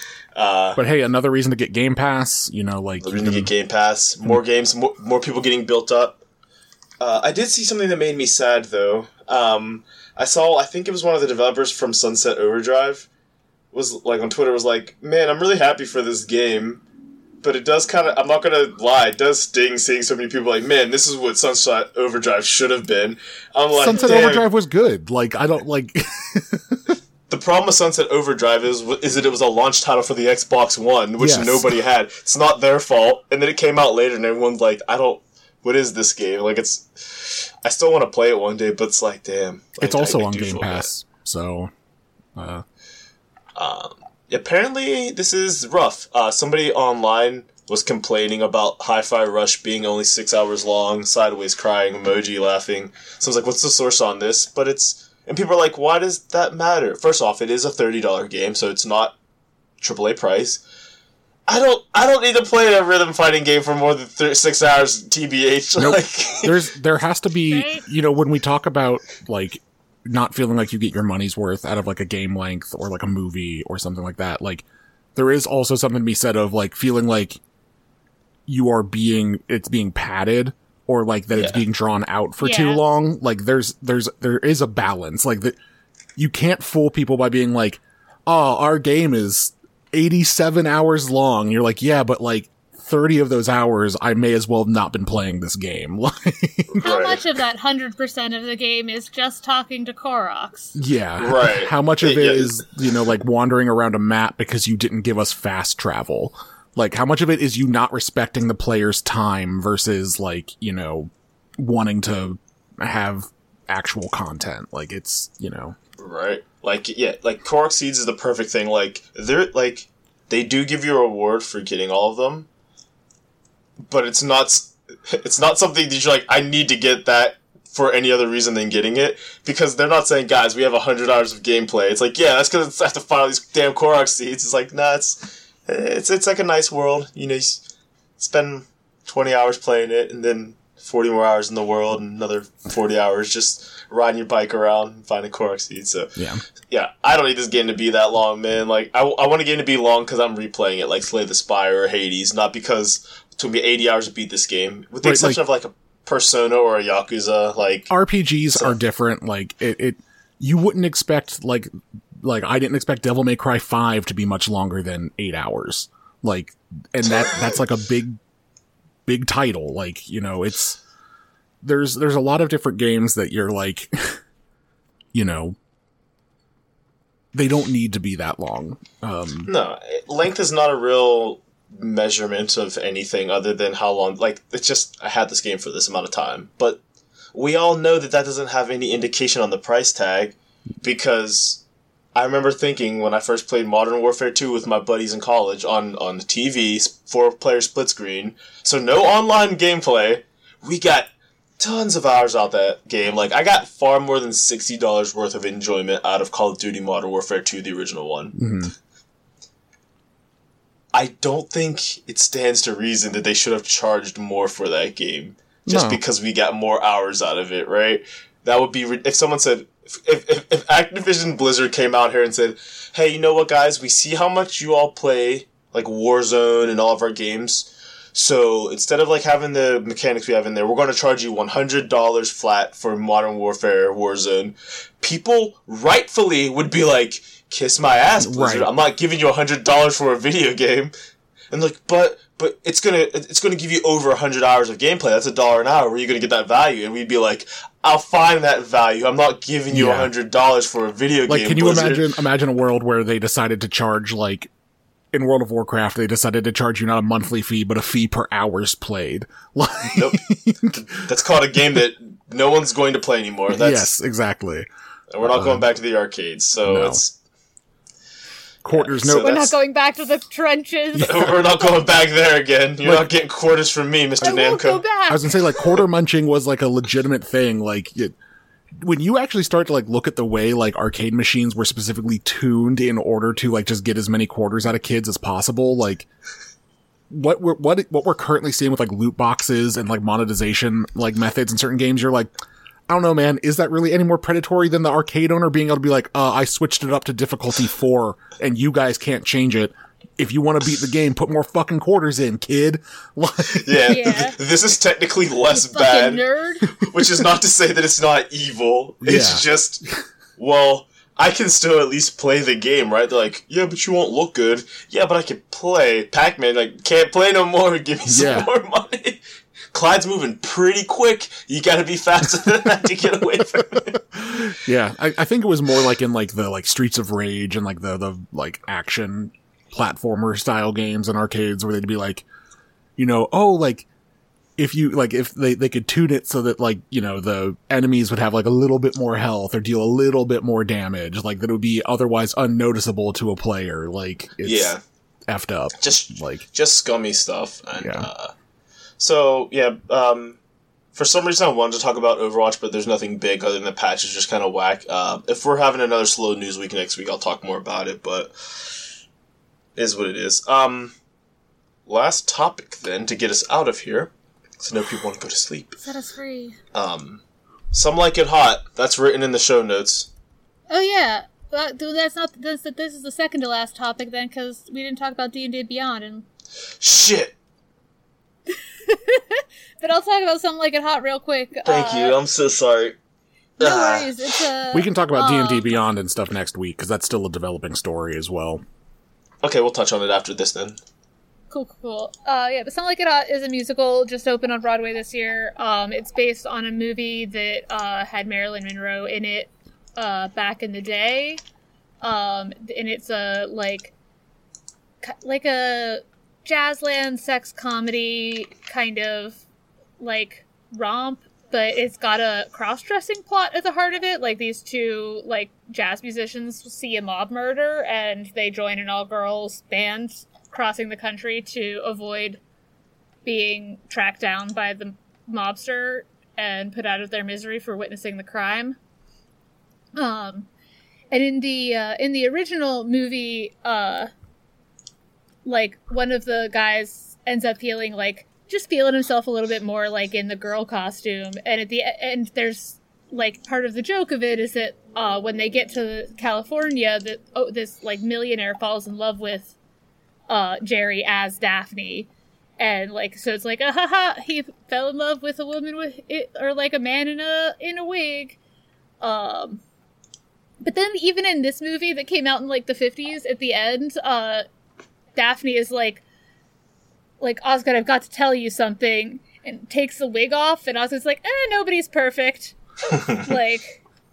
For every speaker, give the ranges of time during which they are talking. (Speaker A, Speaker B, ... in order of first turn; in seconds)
Speaker A: 0.3-0.8, 3.0-6.2, 7.0-13.1, 13.7-16.8, 17.4-24.5, 27.3-40.9, 43.6-59.2, 59.8-60.6, 61.5-66.6, 81.4-81.6, 96.7-97.2, 101.2-102.6, 116.0-122.5, 123.8-137.6, 138.2-146.2, 146.7-157.9, 179.5-186.8, 187.3-191.6, 192.2-208.3, 210.9-240.9, 241.5-252.1, 259.9-264.0, 265.1-267.1, 268.7-269.6, 271.0-274.8, 303.5-306.2, 306.7-309.9, 310.4-319.2, 319.7-324.0, 344.4-344.8, 345.8-348.3, 349.0-350.4, 350.9-358.3, 359.8-360.9, 361.9-365.8, 366.7-367.2, 367.7-370.1, 376.8-377.4, 381.7-383.0, 383.6-384.4, 389.4-390.8
Speaker B: 0.8-3.5, 23.7-26.9, 31.2-31.8, 39.8-41.7, 42.4-42.6, 65.8-77.4, 78.5-85.6, 86.2-96.9, 100.8-115.8, 146.2-146.4, 155.0-155.4, 157.9-161.7, 162.2-168.2, 169.1-170.8, 171.6-174.2, 175.1-175.6, 177.3-179.5, 208.3-208.7, 215.7-216.0, 238.2-238.7, 249.7-250.1, 251.3-254.5, 255.1-261.0, 263.5-264.7, 265.2-265.6, 266.7-267.0, 268.6-269.3, 270.9-271.4, 272.8-273.1, 275.1-278.1, 278.8-286.1, 287.1-292.3, 292.9-303.7, 306.6-307.2, 309.0-309.4, 318.1-318.5, 323.9-332.2, 333.0-333.9, 334.6-344.7, 345.3-346.4, 347.8-348.1, 384.7-388.6
Speaker C: 67.5-67.8, 82.4-82.8, 96.8-100.8, 269.1-271.4, 274.2-275.4, 303.9-304.4, 305.5-306.7, 365.8-366.6, 370.7-376.3, 378.9-382.2, 383.6-385.9, 391.5-401.4, 402.0-403.9, 405.0-409.4, 410.0-422.4, 423.2-428.8, 430.0-430.5, 431.1-434.1, 435.4-449.6, 450.3-458.4, 459.0-459.6, 460.6-464.4, 465.1-466.0, 467.2-473.8